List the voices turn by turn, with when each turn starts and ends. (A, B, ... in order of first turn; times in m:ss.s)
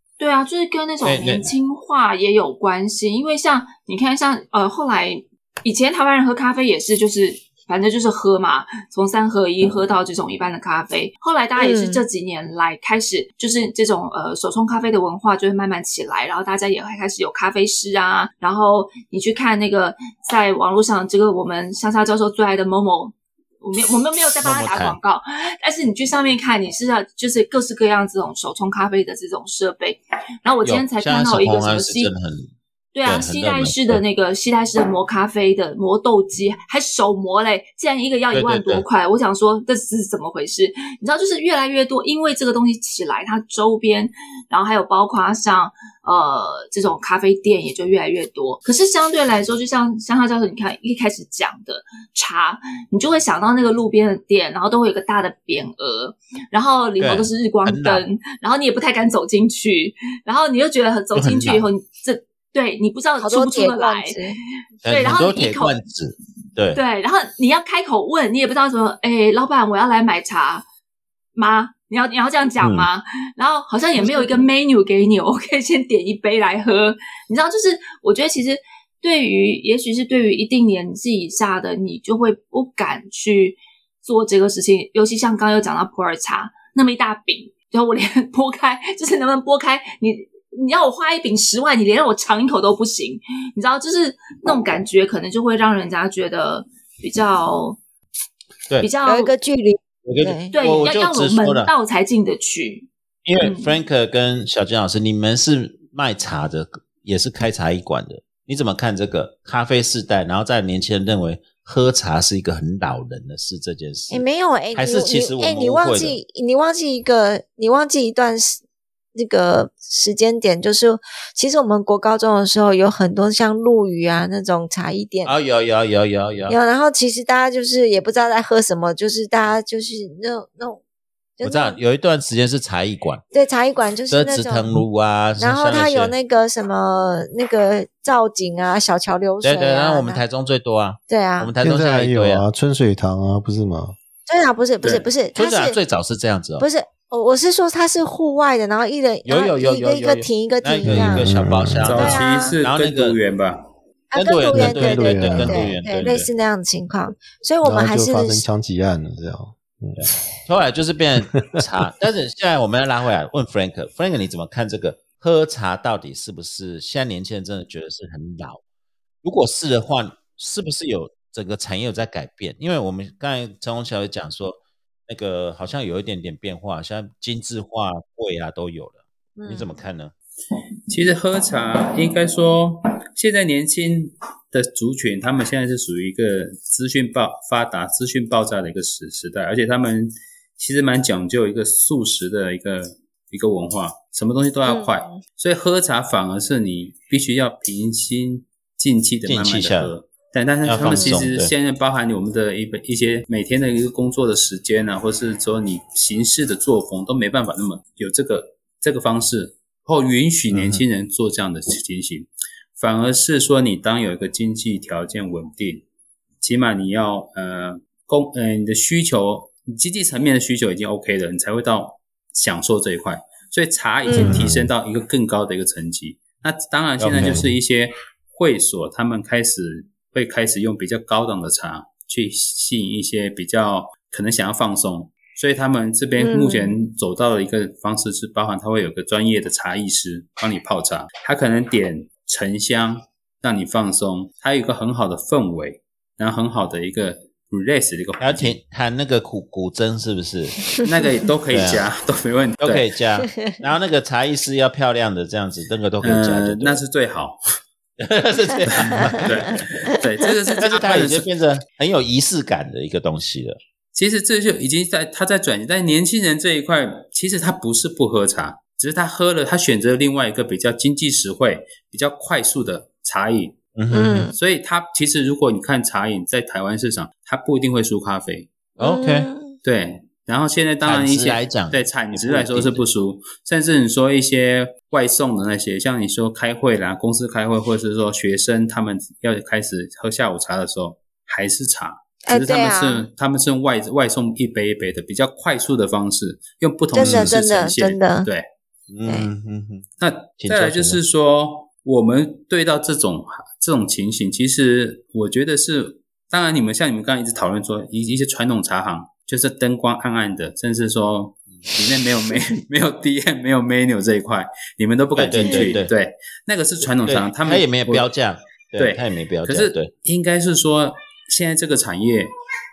0:00.2-0:32.1 A
0:01.0-0:01.5 B
0:11.6-0:12.0 C
0:24.4-0:25.0 B
0:30.6-0:32.5 B
0:32.9-1:04.2 A
0:33.0-0:34.0 B
0:38.3-0:38.8 B
0:57.0-0:58.0 B
1:01.1-1:01.6 B
1:03.2-1:04.4 C
1:04.8-1:05.8 A
1:04.8-1:06.8 B
1:06.7-1:10.6 A
1:11.4-1:37.8 A
1:12.6-1:12.9 B
1:14.0-1:14.4 C
1:38.8-1:39.3 A
1:39.0-1:40.5 C
1:40.0-1:41.7 B
1:40.5-1:42.9 A
1:43.2-1:54.2 B
1:43.4-1:43.8 A
1:54.1-1:58.6 C
1:54.7-1:56.2 B
1:59.1-2:05.3 C
2:05.2-2:06.6 B
2:06.5-2:10.8 C
2:11.4-2:11.8 C
2:11.4-2:13.2 B
2:13.3-2:14.7 C
2:14.1-2:16.1 B
2:15.4-2:20.2 C
2:19.4-2:22.4 B
2:21.1-2:21.5 C
2:21.6-2:24.0 D
2:24.3-2:25.8 C
2:25.3-2:26.7 B
2:26.6-2:31.3 C
2:29.2-2:33.2 B
2:30.8-2:31.9 D
2:31.8-2:33.7 E
2:31.9-2:32.6 C
2:34.1-2:38.4 C
2:34.1-2:36.3 B
2:34.5-2:35.7 D
2:37.6-2:40.1 D
2:40.4-2:48.6 B
2:49.2-3:00.1 B
2:59.4-2:59.7 C
3:00.9-3:35.8 E
3:14.6-3:15.2 C
3:19.2-3:19.9 B
3:20.6-3:21.5 B
3:20.8-3:21.2 C
3:30.5-3:30.8 B
3:36.4-4:08.6 E
3:44.0-3:44.4 C
3:47.0-3:47.5 B
3:56.2-3:56.7 C
4:08.2-4:10.6 B
4:10.8-4:12.9 E
4:11.5-4:11.8 B
4:12.6-4:16.8 B
4:13.2-4:13.6 C
4:16.0-4:17.4 E
4:18.0-4:19.7 B
4:18.7-4:21.3 E
4:20.6-4:23.6 B
4:23.9-4:33.6 E
4:33.8-4:34.3 B
4:33.9-4:34.3 C
4:34.3-4:38.5 E
4:38.8-4:39.3 B
4:38.8-4:39.6 C
4:39.6-4:58.5 E
4:40.8-4:42.8 B
4:52.3-4:53.1 C
4:56.9-4:58.3 C
4:57.0-4:57.4 B
4:58.9-4:59.8 B
5:00.0-5:18.1 E
5:00.4-5:01.0 B
5:15.2-5:15.9 B
5:15.4-5:15.8 C
5:16.9-5:19.9 B
5:18.8-5:22.3 E